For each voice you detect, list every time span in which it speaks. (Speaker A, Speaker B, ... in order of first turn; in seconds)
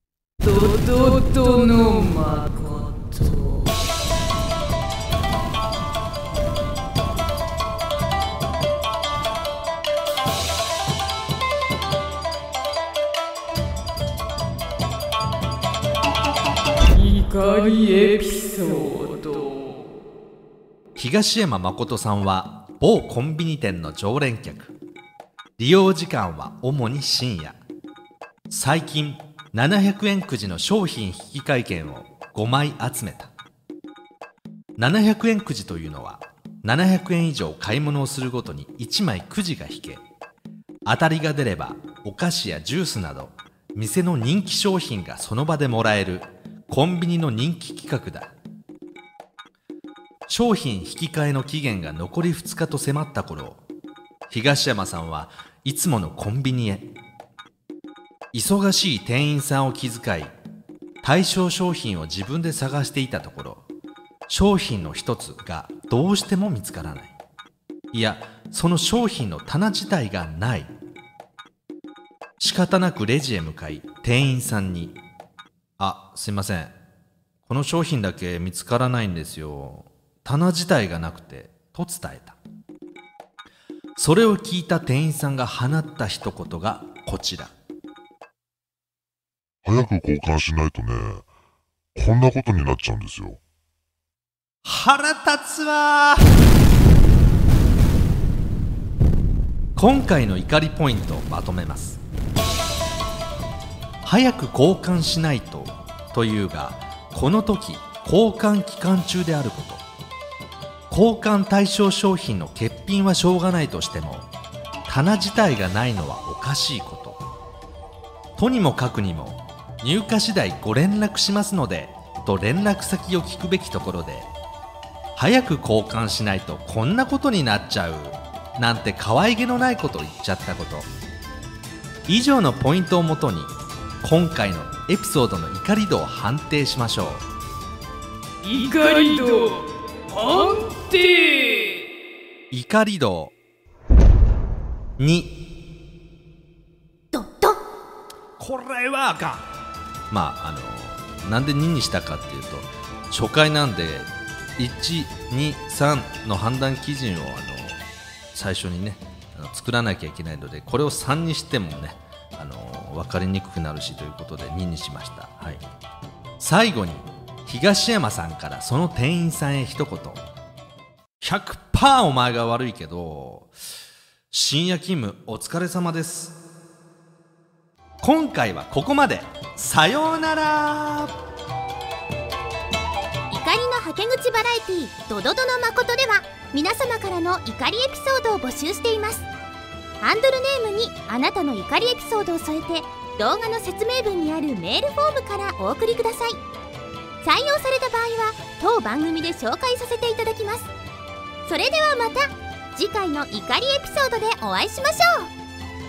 Speaker A: 0.4-3.7, 16.9-19.9, 138.4-141.8
Speaker B: 21.0-24.7, 25.6-27.6, 28.5-33.3, 34.8-40.0, 40.9-48.3, 50.3-53.6, 54.3-56.9, 58.3-60.3, 61.0-63.6, 64.3-67.2, 67.9-70.7, 72.4-75.0, 75.8-76.7, 77.5-82.4, 84.0-87.5, 94.6-96.3, 99.8-102.0, 104.0-109.8, 110.9-114.3, 114.9-117.2, 118.4-124.3, 125.2-130.9, 132.1-137.2, 142.5-143.3, 145.0-145.3, 148.4-149.4, 150.1-157.8, 158.3-165.6, 166.4-170.2, 171.2-173.5, 174.3-176.4, 178.0-181.2
Speaker C: 89.6-91.3, 92.0-93.4
Speaker D: 147.1-147.6, 183.3-189.3, 190.0-196.4, 197.2-200.7, 201.5-205.3